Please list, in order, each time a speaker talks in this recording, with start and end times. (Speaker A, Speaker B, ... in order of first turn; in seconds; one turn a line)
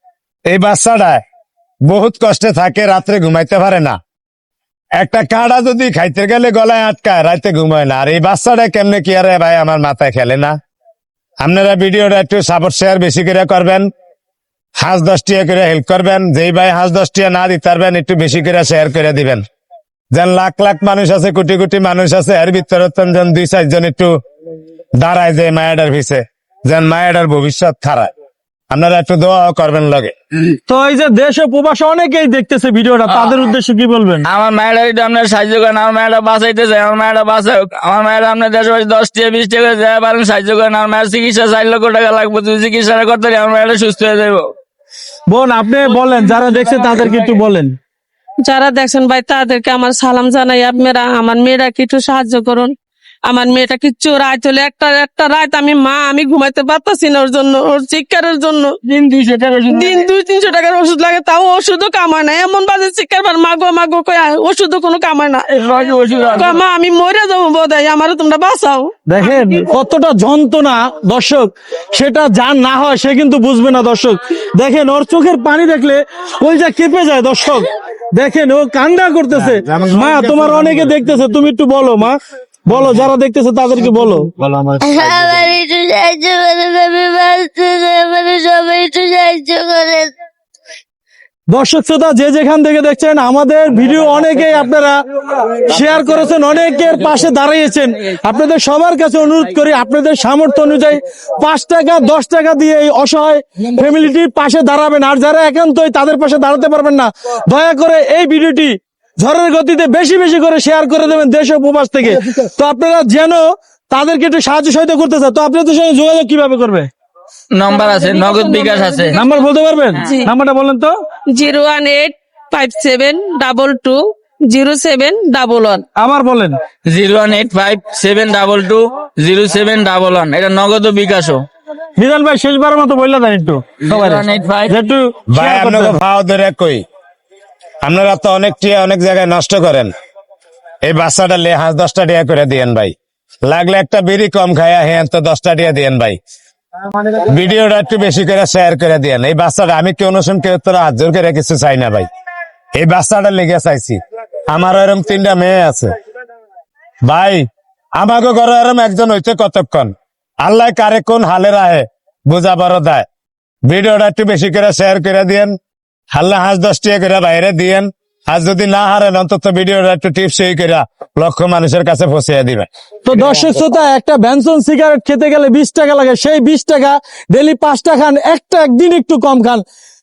Speaker A: 0.5-1.2
Speaker A: 1.9-4.0
Speaker A: 5.0-10.5
Speaker A: 11.4-13.9
Speaker A: 14.8-19.4
Speaker A: 20.1-24.1
Speaker A: 25.0-28.1
Speaker A: 28.7-30.1
Speaker B: 30.7-34.2
Speaker C: 33.1-33.4
Speaker C: 34.2-44.5
Speaker B: 45.3-47.8
Speaker C: 46.1-47.1
Speaker D: 48.4-52.7
Speaker D: 53.3-58.8
Speaker C: 58.8-60.0
Speaker D: 59.7-65.5
Speaker C: 65.5-66.6
Speaker D: 66.3-68.9
Speaker B: 69.1-84.3
Speaker A: 79.3-81.0
Speaker A: 82.7-83.0
Speaker A: 84.3-85.5
Speaker E: 84.8-90.1
Speaker B: 91.5-116.9
Speaker C: 117.5-119.2
Speaker B: 119.1-120.9
Speaker D: 120.0-120.3
Speaker D: 121.3-125.8
Speaker B: 126.0-126.6
Speaker C: 126.9-131.5
Speaker B: 132.0-136.0
Speaker C: 133.8-134.8
Speaker A: 135.3-136.8
Speaker A: 137.8-139.9
Speaker A: 140.8-146.2
Speaker A: 147.2-152.1
Speaker A: 152.7-155.9
Speaker A: 157.0-157.4
Speaker A: 158.0-163.1
Speaker A: 163.7-165.5
Speaker A: 166.1-172.7
Speaker B: 173.1-179.6